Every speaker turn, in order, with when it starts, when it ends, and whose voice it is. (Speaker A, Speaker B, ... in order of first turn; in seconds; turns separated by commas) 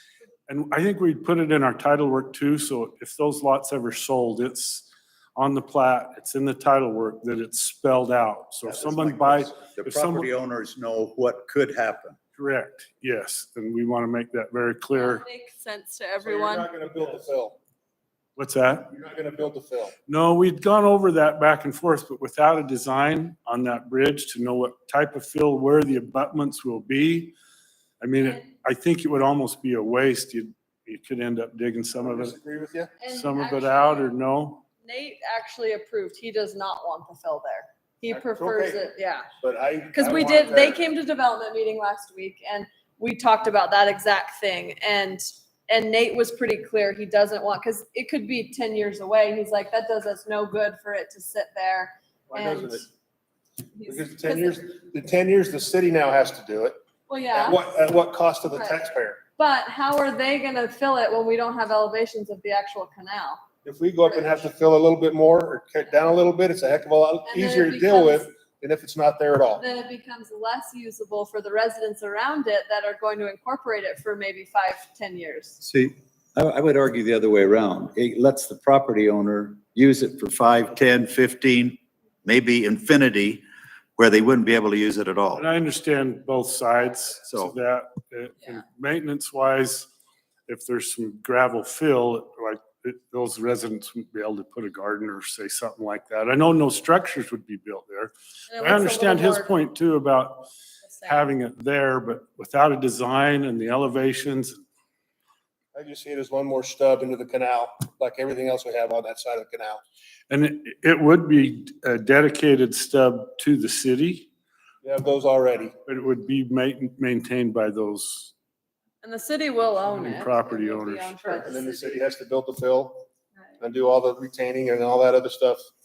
Speaker A: 0.5-10.3, Speaker B: 8.7-12.2, Speaker A: 12.3-15.2, Speaker C: 14.9-16.7, Speaker D: 16.2-17.6, Speaker A: 18.4-18.9, Speaker D: 18.9-19.9, Speaker A: 20.1-27.3, Speaker A: 28.0-32.3, Speaker D: 32.0-32.9, Speaker C: 33.0-34.1, Speaker A: 33.1-34.6, Speaker C: 34.8-39.3, Speaker D: 38.1-38.8, Speaker D: 39.4-40.8, Speaker C: 39.9-52.9, Speaker D: 52.3-52.9, Speaker C: 53.7-54.6, Speaker D: 53.9-56.8, Speaker C: 57.1-57.7, Speaker D: 57.3-59.2, Speaker C: 58.5-58.8, Speaker C: 59.4-63.4, Speaker D: 63.6-69.6, Speaker C: 64.1-64.3, Speaker C: 67.3-68.3, Speaker C: 69.5-75.6, Speaker B: 75.6-83.4, Speaker B: 84.0-85.5, Speaker A: 85.3-89.9, Speaker B: 87.3-87.5, Speaker A: 90.5-100.5, Speaker C: 98.5-99.6, Speaker C: 100.8-101.3, Speaker A: 101.0-104.6, Speaker D: 105.7-109.8, Speaker A: 110.3-114.3, Speaker D: 114.8-115.7, Speaker A: 115.8-118.3, Speaker C: 119.0-121.9, Speaker A: 119.8-121.4, Speaker D: 121.4-123.0, Speaker D: 123.6-125.6